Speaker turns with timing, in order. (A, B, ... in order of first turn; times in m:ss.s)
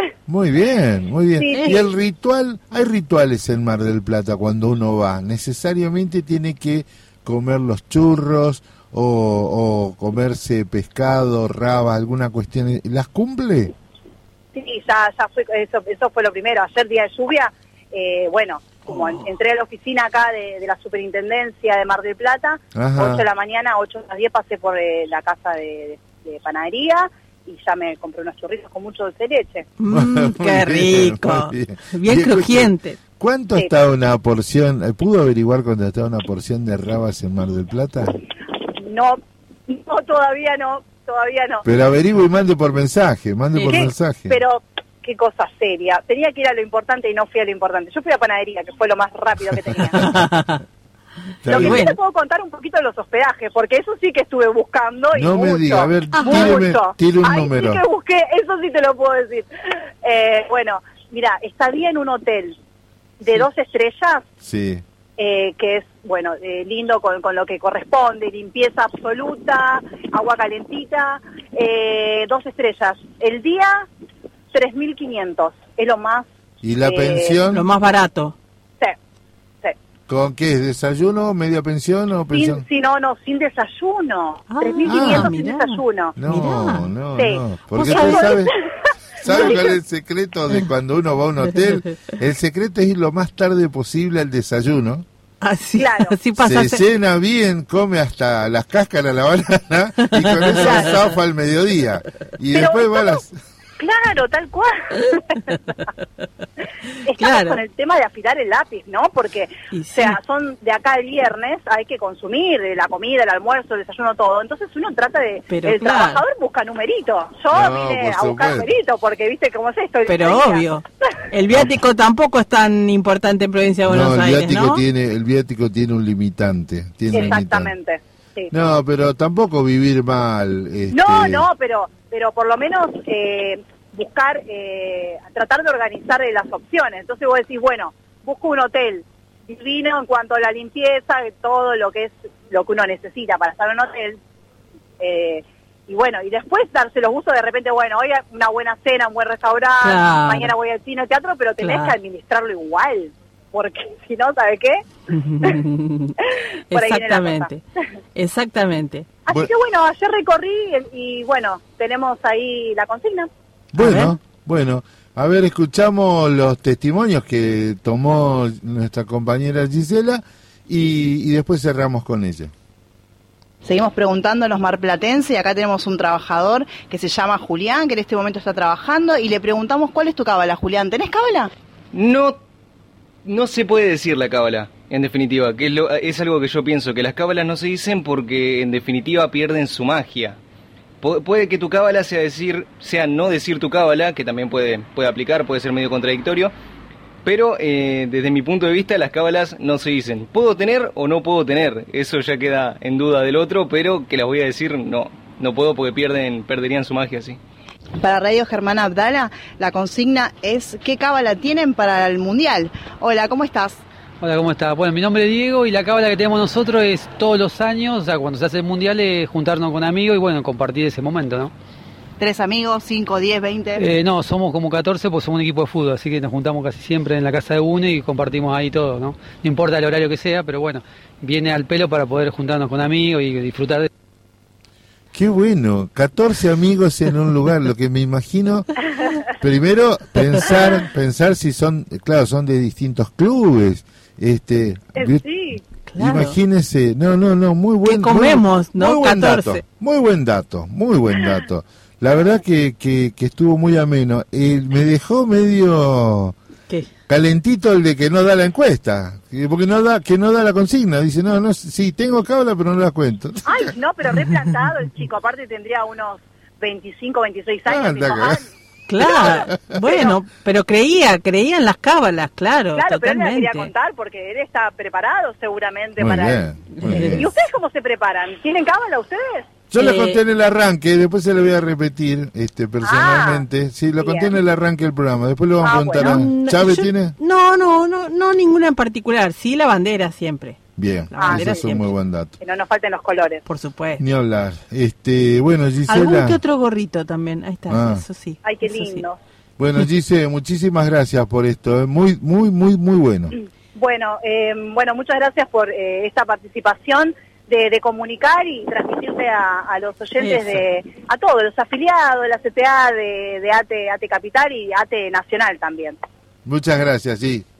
0:00.3-0:13.7 A
0:01.4-0:01.8 B
0:14.5-0:29.7 B
0:22.8-0:23.2 A
0:29.8-0:33.0 C
0:29.9-0:38.2 A
0:38.7-0:41.7 B
0:41.6-0:44.4 A
0:43.6-0:50.0 B
0:49.9-0:50.6 C
0:51.4-0:51.9 A
0:51.5-0:59.5 B
0:51.5-0:52.0 C
0:55.1-0:57.8 A
0:56.2-0:56.5 C
1:00.0-1:02.6 B
1:03.2-1:04.2 B
1:04.4-1:04.8 A
1:05.2-1:13.9 B
1:14.5-1:16.3 B
1:16.6-1:17.7 A
1:16.8-1:17.4 B
1:17.5-1:18.4 C
1:20.1-1:22.6 A
1:22.3-1:26.2 B
1:24.5-1:26.9 C
1:24.8-1:25.4 A
1:26.2-1:28.5 A
1:27.2-1:28.7 B
1:27.8-1:28.4 C
1:29.2-1:35.1 A
1:29.3-1:29.7 B
1:35.4-1:36.8 C
1:35.8-1:36.2 B
1:36.4-1:43.4 A
1:40.3-1:40.8 C
1:40.5-1:41.0 B
1:42.5-1:43.2 B
1:43.8-1:45.5 B
1:47.0-2:00.7 B
1:47.2-1:47.6 C
1:49.7-1:50.2 C
1:55.5-1:56.2 C
1:57.5-1:58.7 A
2:00.1-2:04.8 C
2:03.9-2:07.7 A
2:07.1-2:08.5 B
2:08.5-2:11.5 A
2:10.9-2:24.2 B
2:25.0-2:34.8 B
2:29.8-2:30.5 C
2:31.6-2:32.0 C
2:35.1-2:36.2 C
2:36.3-2:37.5 B
2:36.7-2:37.6 C
2:38.2-2:39.1 C
2:39.3-2:43.3 B
2:43.7-2:52.5 A
2:43.8-2:44.1 C
2:53.6-3:01.5 D
3:01.9-3:02.4 E
3:03.3-3:10.4 E
3:11.0-3:16.5 E
3:17.2-3:27.4 E
3:28.0-3:33.8 D
3:34.2-3:41.5 F
3:42.2-3:43.8 D
3:43.8-3:53.9 F
3:55.1-4:05.2 A
4:05.0-4:05.6 B
4:05.9-4:06.4 C
4:06.0-4:16.4 A
4:07.8-4:09.6 C
4:17.1-4:23.7 A
4:23.4-4:28.4 B
4:27.7-4:28.4 A
4:28.9-4:33.7 C
4:29.0-4:30.2 B
4:29.0-4:29.8 A
4:32.8-4:39.5 B
4:36.0-4:37.3 A
4:36.8-4:37.3 C
4:39.7-4:47.2 A
4:39.8-4:40.2 C
4:42.8-4:43.4 B
4:44.0-4:44.3 B
4:45.6-4:46.2 B
4:46.0-4:50.6 C
4:50.8-4:52.3 A
4:51.1-4:51.9 C
4:51.2-4:51.7 B
4:52.4-4:53.4 B
4:53.5-4:54.0 C
4:54.0-4:56.4 A
4:55.9-4:59.1 C
4:57.7-4:58.0 A
4:58.4-4:59.2 B
4:59.6-5:03.4 A
5:03.8-5:16.0 B
5:10.2-5:10.6 C
5:16.4-5:17.5 A